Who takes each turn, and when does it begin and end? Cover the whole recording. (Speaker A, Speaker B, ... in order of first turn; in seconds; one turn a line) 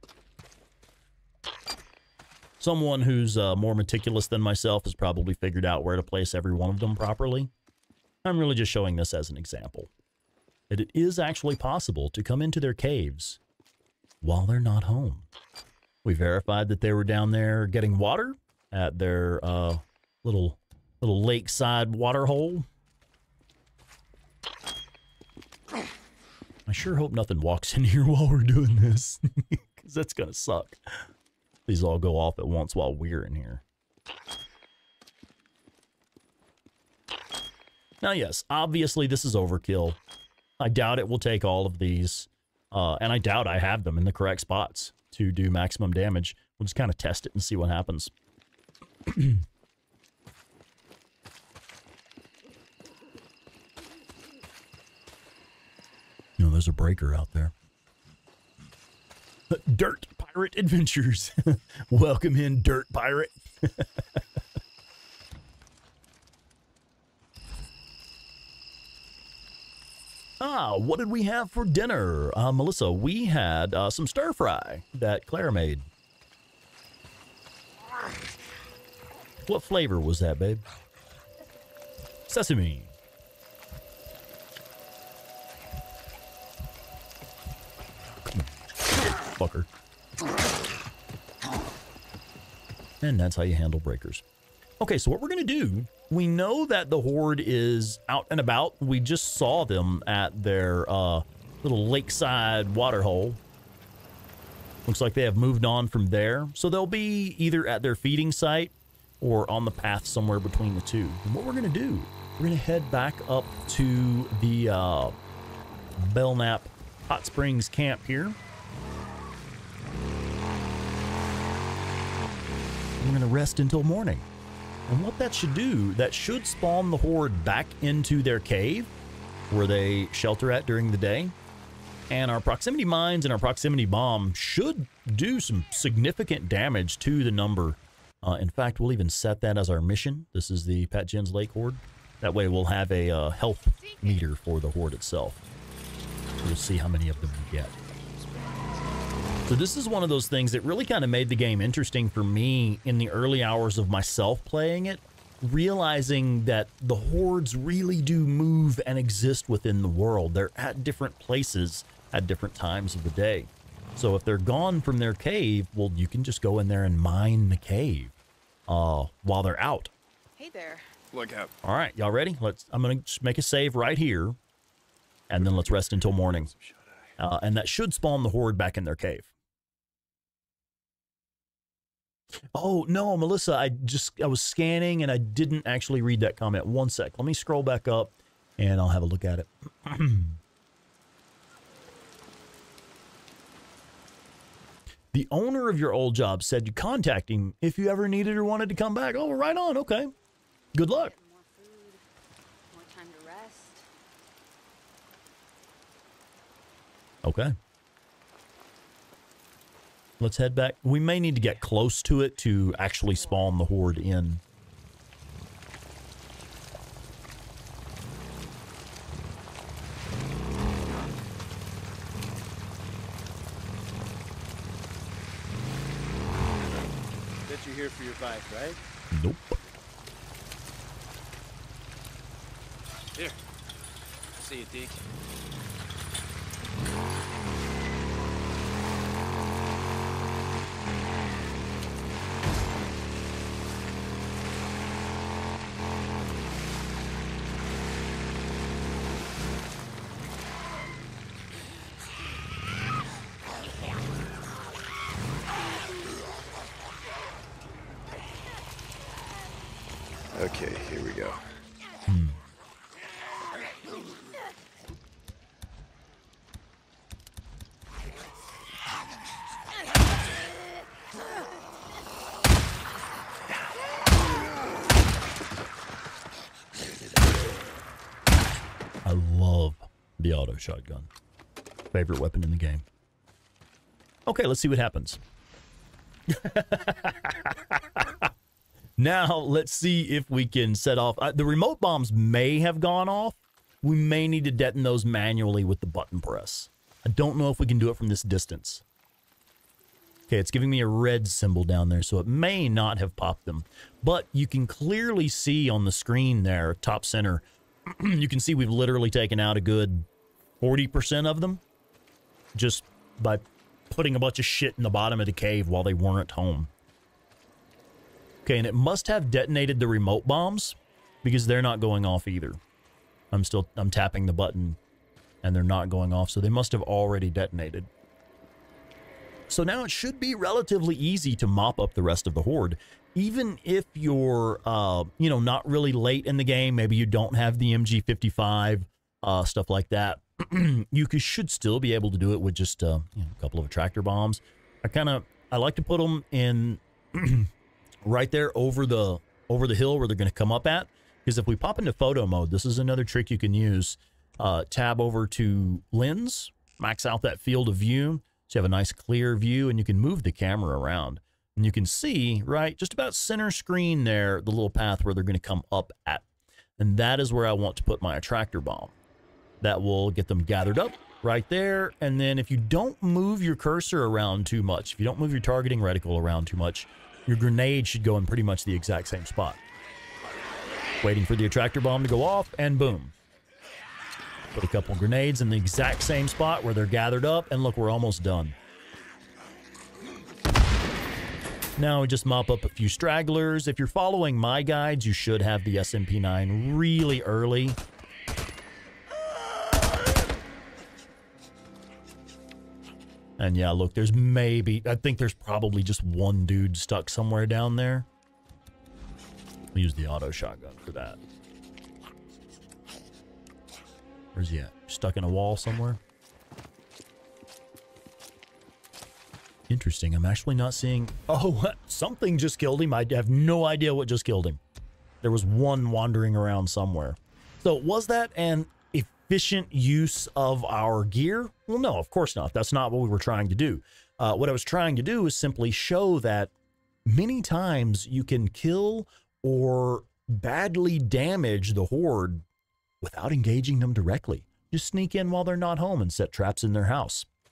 Speaker A: 2.6-7.5
Speaker A: 8.2-9.9
Speaker A: 10.7-13.4
Speaker A: 14.2-15.3
Speaker A: 16.0-22.7
Speaker A: 26.7-31.0
Speaker A: 31.7-33.6
Speaker A: 38.0-40.0
Speaker A: 40.6-48.1
Speaker A: 49.1-49.4
Speaker A: 56.4-57.5
Speaker A: 59.5-64.2
Speaker A: 70.4-75.8
Speaker A: 79.5-80.6
Speaker A: 82.3-82.9
Speaker A: 89.3-89.7
Speaker A: 93.0-94.2
Speaker A: 94.8-103.4
Speaker A: 104.8-115.1
Speaker A: 116.0-118.4
Speaker A: 123.0-124.3
Speaker A: 124.9-128.9
Speaker A: 129.5-131.3
Speaker A: 132.1-145.4
Speaker B: 143.8-144.2
Speaker A: 146.4-147.7
Speaker A: 149.4-168.1
Speaker A: 168.7-169.9
Speaker B: 170.4-170.8
Speaker C: 171.1-171.5
Speaker A: 171.6-174.4
Speaker A: 175.3-176.5
Speaker C: 175.3-177.1
Speaker A: 177.2-179.3
Speaker A: 182.5-190.4
Speaker A: 195.1-200.1
Speaker A: 200.7-201.1
Speaker B: 200.7-202.0
Speaker B: 202.7-203.8
Speaker A: 207.2-207.5
Speaker A: 210.2-214.4
Speaker B: 213.1-213.5
Speaker D: 227.5-228.8
Speaker A: 229.1-229.6
Speaker D: 234.4-235.0
Speaker C: 260.3-261.4
Speaker A: 262.1-262.4
Speaker A: 279.0-281.1
Speaker A: 281.9-282.8
Speaker A: 284.2-285.2
Speaker A: 286.3-288.2
Speaker A: 289.0-298.8
Speaker A: 300.3-310.1
Speaker A: 310.6-311.6
Speaker A: 312.5-316.7
Speaker A: 318.4-322.6
Speaker A: 323.3-324.8
Speaker A: 325.4-327.9
Speaker A: 329.5-347.5
Speaker A: 348.0-366.2
Speaker A: 366.8-368.9
Speaker A: 369.6-379.6
Speaker A: 381.0-383.1
Speaker A: 384.5-388.5
Speaker A: 391.8-397.8
Speaker A: 403.4-408.1
Speaker A: 409.7-411.2
Speaker A: 414.3-416.0
Speaker A: 419.7-424.6
Speaker A: 425.2-436.5
Speaker A: 437.1-442.4
Speaker A: 443.0-447.3